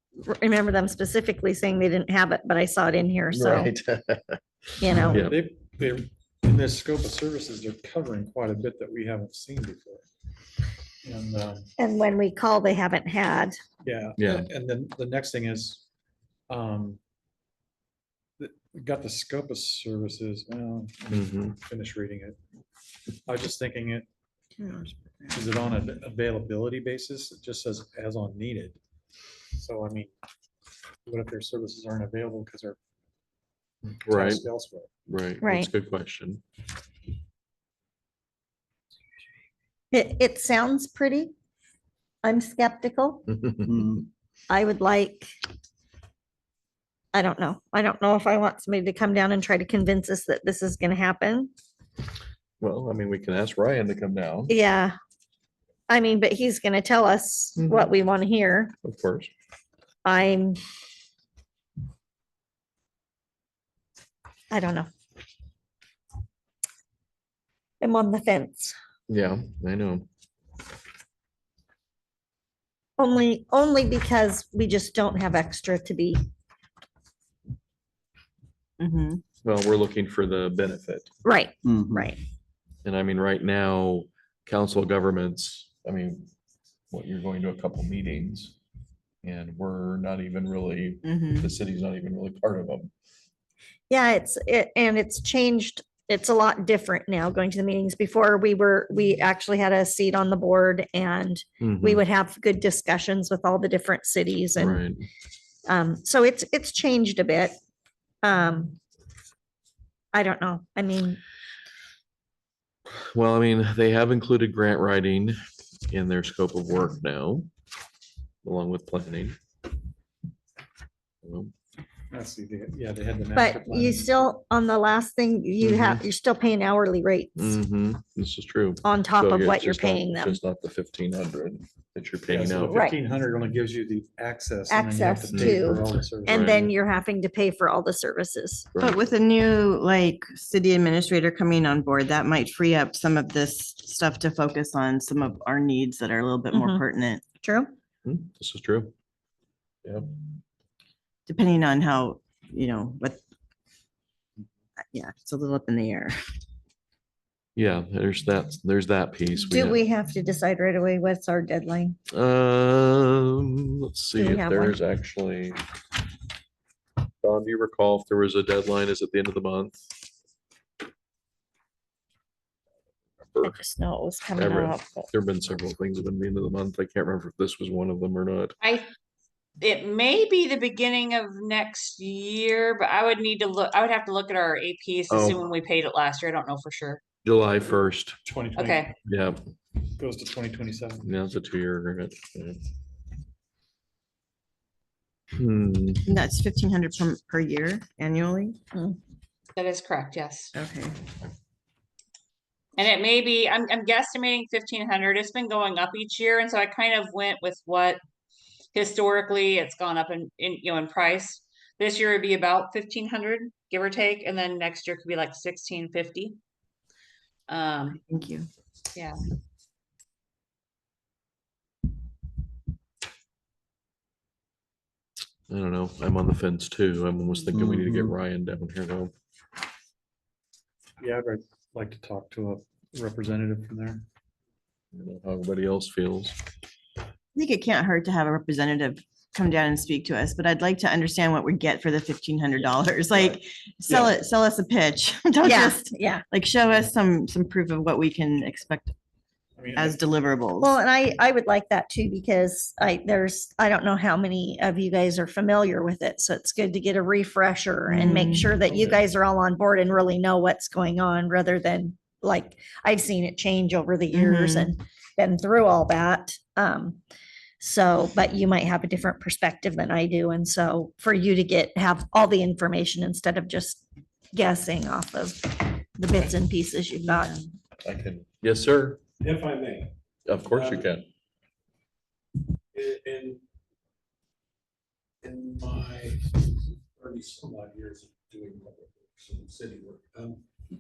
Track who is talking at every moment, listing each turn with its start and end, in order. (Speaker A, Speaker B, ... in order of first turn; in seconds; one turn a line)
Speaker A: 0.2-3.7
Speaker B: 3.3-4.4
Speaker A: 4.8-5.2
Speaker C: 5.0-10.0
Speaker B: 5.1-5.4
Speaker C: 11.0-11.7
Speaker A: 11.8-13.6
Speaker C: 13.8-15.8
Speaker B: 14.2-14.5
Speaker C: 16.5-17.0
Speaker C: 18.4-22.4
Speaker B: 21.1-21.6
Speaker C: 23.2-24.1
Speaker D: 24.6-25.5
Speaker C: 25.3-28.8
Speaker C: 29.5-30.1
Speaker C: 31.1-32.8
Speaker C: 34.0-34.9
Speaker B: 34.0-34.4
Speaker B: 35.1-36.4
Speaker A: 35.4-35.7
Speaker A: 39.9-41.3
Speaker A: 42.2-43.2
Speaker B: 43.4-44.0
Speaker A: 44.5-45.3
Speaker A: 47.1-51.5
Speaker B: 52.6-54.5
Speaker A: 54.5-54.9
Speaker A: 55.9-58.7
Speaker B: 57.6-57.9
Speaker B: 58.8-59.3
Speaker A: 60.0-60.6
Speaker A: 64.5-64.9
Speaker A: 67.8-68.8
Speaker B: 69.1-70.1
Speaker A: 73.0-76.2
Speaker D: 78.8-79.2
Speaker B: 79.4-81.1
Speaker A: 81.2-82.2
Speaker B: 82.8-86.3
Speaker B: 86.9-88.6
Speaker B: 89.2-92.9
Speaker D: 91.0-91.5
Speaker A: 93.9-104.8
Speaker B: 101.6-102.0
Speaker B: 104.6-105.0
Speaker A: 105.7-107.6
Speaker A: 108.2-108.8
Speaker A: 110.1-111.2
Speaker B: 113.0-117.5
Speaker B: 118.4-119.4
Speaker B: 121.2-121.5
Speaker C: 122.1-124.1
Speaker A: 123.3-127.5
Speaker B: 125.6-126.0
Speaker B: 127.3-132.8
Speaker A: 128.8-130.4
Speaker C: 132.3-136.7
Speaker A: 134.7-138.7
Speaker B: 135.3-135.7
Speaker B: 136.3-136.7
Speaker B: 138.7-139.0
Speaker D: 138.8-147.2
Speaker A: 146.5-146.8
Speaker A: 147.4-147.7
Speaker B: 148.1-148.9
Speaker D: 151.3-153.2
Speaker D: 154.9-156.2
Speaker B: 157.6-159.8
Speaker A: 159.4-162.0
Speaker B: 162.1-165.6
Speaker A: 164.2-164.8
Speaker B: 167.2-169.9
Speaker A: 173.4-174.9
Speaker B: 174.3-178.6
Speaker E: 178.6-178.9
Speaker E: 179.6-187.0
Speaker B: 185.1-185.4
Speaker B: 187.2-188.2
Speaker C: 188.2-188.9
Speaker E: 188.5-189.0
Speaker B: 189.1-189.4
Speaker C: 190.0-191.1
Speaker B: 191.0-192.6
Speaker B: 195.3-196.1
Speaker D: 196.1-198.6
Speaker E: 199.6-200.5
Speaker D: 200.6-201.0
Speaker E: 202.8-208.0
Speaker E: 208.7-216.4
Speaker E: 217.5-218.0
Speaker D: 217.9-218.5
Speaker B: 225.5-229.1
Speaker C: 231.0-234.1
Speaker B: 234.9-236.3
Speaker D: 237.3-248.9
Speaker A: 245.4-246.2
Speaker C: 249.6-250.0
Speaker D: 249.8-250.7
Speaker A: 250.6-267.0
Speaker D: 257.9-258.6
Speaker C: 258.1-259.1
Speaker D: 264.1-264.7
Speaker A: 267.6-277.4
Speaker D: 277.1-277.4
Speaker B: 277.8-279.0
Speaker F: 279.2-279.9
Speaker B: 280.3-281.0
Speaker F: 280.4-280.9
Speaker F: 282.7-283.4
Speaker F: 285.2-290.4